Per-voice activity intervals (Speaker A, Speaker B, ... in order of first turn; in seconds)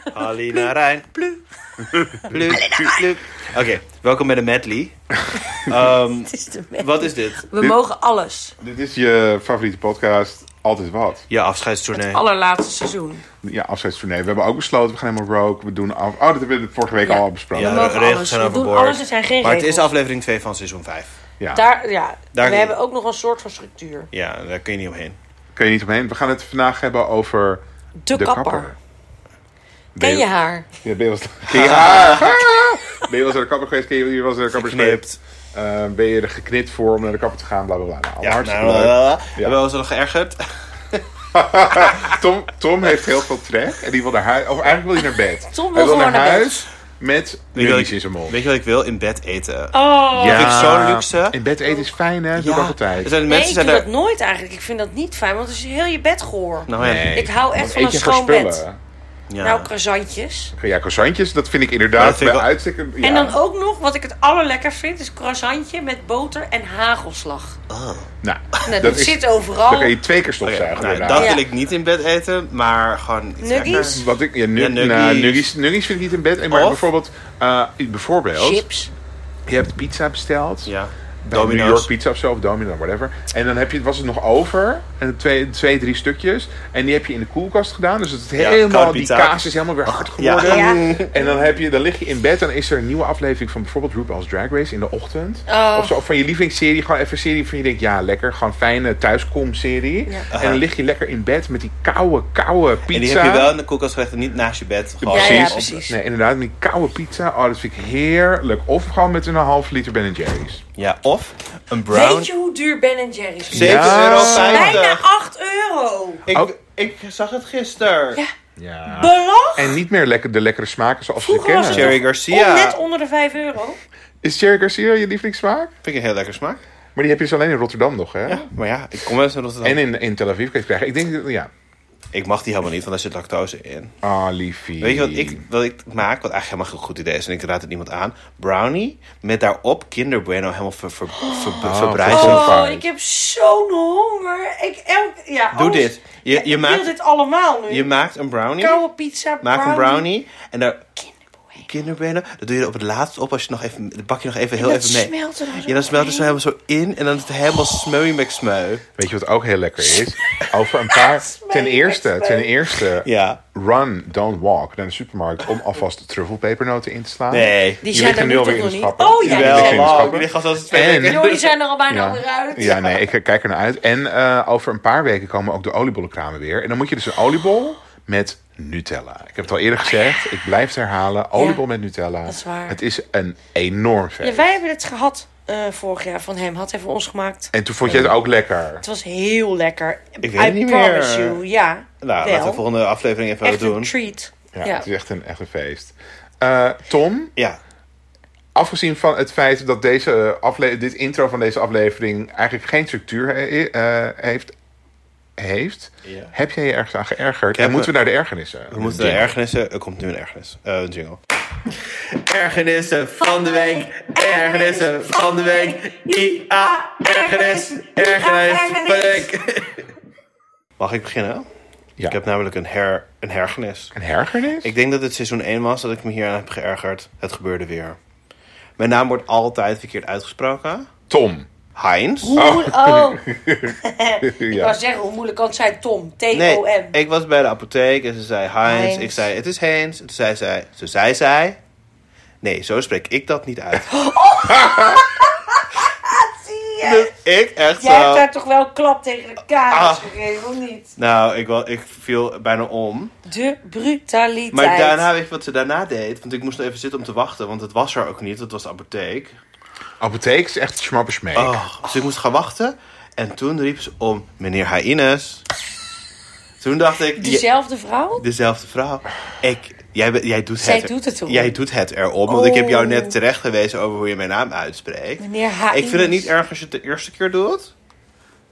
Speaker A: 0.1-1.1, 2.2-5.0, 5.5-7.5, 11.3-12.2, 17.6-21.2, 22.3-22.8, 24.1-25.2, 31.5-32.4, 34.5-35.2, 38.2-41.1, 41.8-42.1, 47.5-51.4, 52.4-53.9, 56.7-57.2, 59.3-59.7, 61.9-62.5, 67.7-68.1, 70.4-75.5, 76.5-76.8, 80.7-81.9, 88.4-91.1, 100.3-100.6, 102.9-105.8, 110.8-112.3, 113.5-115.1, 116.3-118.2, 121.7-122.8, 125.8-126.6, 128.3-129.8, 132.1-133.9, 134.8-142.7, 145.5-146.9, 147.7-148.8, 149.4-150.9, 151.7-155.1, 155.6-158.8, 163.0-163.4, 167.3-167.8, 169.2-171.5, 187.8-188.2, 190.2-191.4, 192.0-193.9, 206.0-206.3, 207.6-207.9, 208.7-219.9, 220.8-221.5, 222.1-223.9, 224.6-228.0, 228.8-230.9, 231.8-232.4, 236.3-241.6, 242.4-243.9, 246.8-248.3, 249.7-250.1, 251.0-253.1, 254.5-259.4, 261.4-265.4, 266.6-267.4, 268.2-277.7
Speaker B: 0.5-1.4, 2.2-3.1, 6.3-8.6, 11.9-13.2, 17.1-19.9, 21.5-24.1, 28.0-28.7, 30.0-30.7, 45.5-46.7, 49.7-50.8, 53.2-58.6, 59.4-60.5, 63.0-67.6, 68.7-70.0, 71.1-71.5, 73.4-74.1, 78.3-78.9, 90.4-91.5, 95.5-96.0, 105.1-106.0, 111.9-116.2, 118.9-119.8, 121.2-123.8, 141.2-147.9, 148.6-150.1, 154.6-156.4, 159.8-162.7, 167.8-170.2, 170.9-173.1, 179.9-180.2, 181.3-181.6, 182.3-182.8, 184.2-187.5, 188.8-192.7, 193.4-194.9, 213.2-219.3, 232.2-236.9, 238.7-239.3, 243.9-247.1, 247.8-250.9, 253.3-255.1, 267.2-268.2, 270.6-271.6, 272.3-273.1, 275.2-276.3
Speaker C: 8.6-11.3, 13.4-17.9, 21.4-21.6, 25.6-28.8, 30.0-30.3, 30.8-35.0, 35.5-39.5, 41.3-48.4, 50.2-53.2, 56.8-58.8, 60.6-63.4, 68.2-71.4, 73.7-78.7, 79.5-80.7, 81.2-103.5, 105.0-110.6, 113.5-114.8, 118.6-122.0, 124.2-125.7, 127.0-128.5, 129.6-131.5, 134.0-135.4, 141.6-142.8, 159.0-171.3, 171.9-184.5, 187.5-188.8, 194.5-197.3, 198.6-204.5, 205.4-209.3, 223.9-224.7, 231.1-231.5, 232.4-234.8, 244.4-245.1, 260.0-261.6